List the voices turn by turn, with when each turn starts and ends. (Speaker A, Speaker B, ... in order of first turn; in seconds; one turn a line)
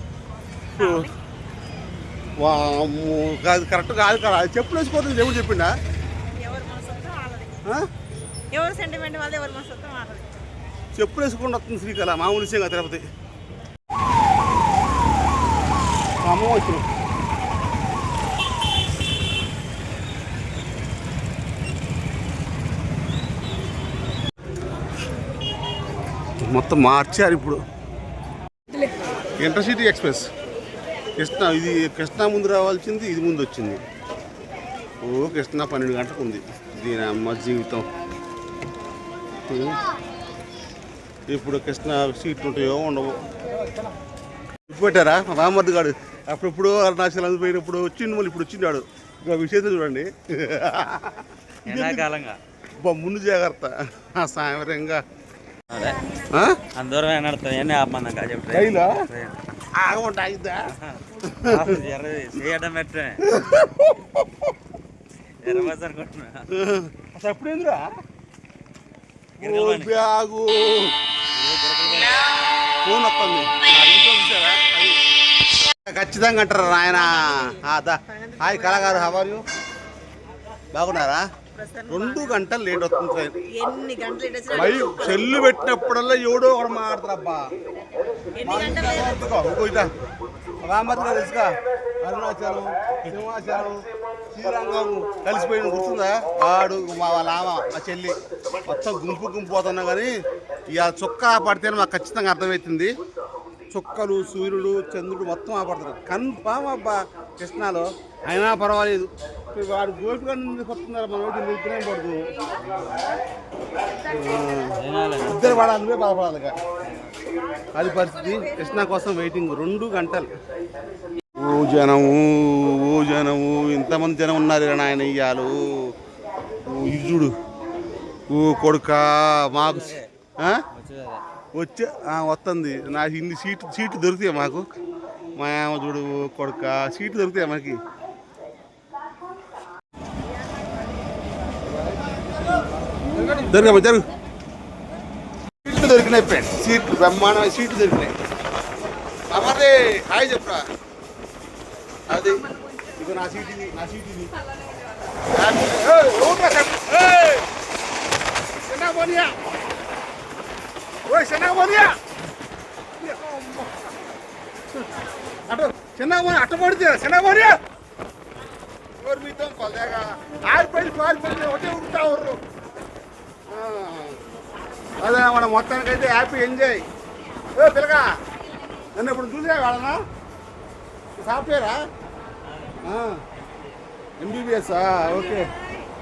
Speaker A: 0.8-1.1
Speaker B: 0.8-1.1
Speaker B: 2.4-5.7
Speaker A: 6.4-7.6
Speaker A: 8.5-10.3
Speaker B: 10.9-13.0
Speaker B: 16.2-16.9
Speaker B: 26.5-27.6
Speaker B: 29.4-30.3
Speaker B: 31.2-33.8
Speaker B: 35.0-37.8
Speaker B: 39.5-39.8
Speaker B: 41.3-43.2
Speaker B: 44.7-52.1
Speaker C: 51.6-52.4
Speaker B: 52.8-55.0
Speaker C: 55.7-56.0
Speaker B: 56.3-56.6
Speaker C: 56.7-59.4
Speaker B: 58.5-59.0
Speaker B: 59.7-60.7
Speaker C: 60.8-63.2
Speaker B: 61.2-61.8
Speaker B: 63.2-64.4
Speaker C: 65.4-66.5
Speaker B: 66.5-67.8
Speaker C: 69.4-69.9
Speaker B: 69.4-70.9
Speaker C: 71.3-72.2
Speaker B: 72.8-75.0
Speaker B: 75.7-79.4
Speaker A: 76.7-79.3
Speaker B: 80.7-81.2
Speaker A: 81.5-82.4
Speaker B: 81.9-83.3
Speaker A: 83.5-85.4
Speaker B: 84.5-87.4
Speaker A: 88.3-89.3
Speaker B: 88.4-89.9
Speaker B: 90.6-100.1
Speaker B: 100.7-102.9
Speaker B: 103.7-112.2
Speaker C: 112.6-113.0
Speaker B: 114.0-116.6
Speaker C: 114.8-115.7
Speaker C: 116.8-117.1
Speaker B: 117.7-120.3
Speaker B: 121.4-125.5
Speaker B: 126.7-127.3
Speaker B: 128.3-130.6
Speaker C: 129.6-130.1
Speaker C: 130.7-131.2
Speaker B: 131.6-134.7
Speaker B: 135.4-137.8
Speaker B: 143.4-144.1
Speaker B: 145.6-148.1
Speaker B: 149.3-150.6
Speaker B: 152.1-152.4
Speaker B: 153.0-154.3
Speaker B: 155.3-157.4
Speaker B: 158.7-159.3
Speaker B: 161.1-161.9
Speaker B: 163.0-163.9
Speaker B: 165.5-167.6
Speaker B: 169.0-172.4
Speaker B: 173.5-174.2
Speaker B: 175.0-176.8
Speaker B: 177.6-178.1
Speaker B: 178.9-180.0
Speaker B: 181.2-181.8
Speaker C: 182.5-182.8
Speaker B: 182.8-183.2
Speaker B: 184.2-185.5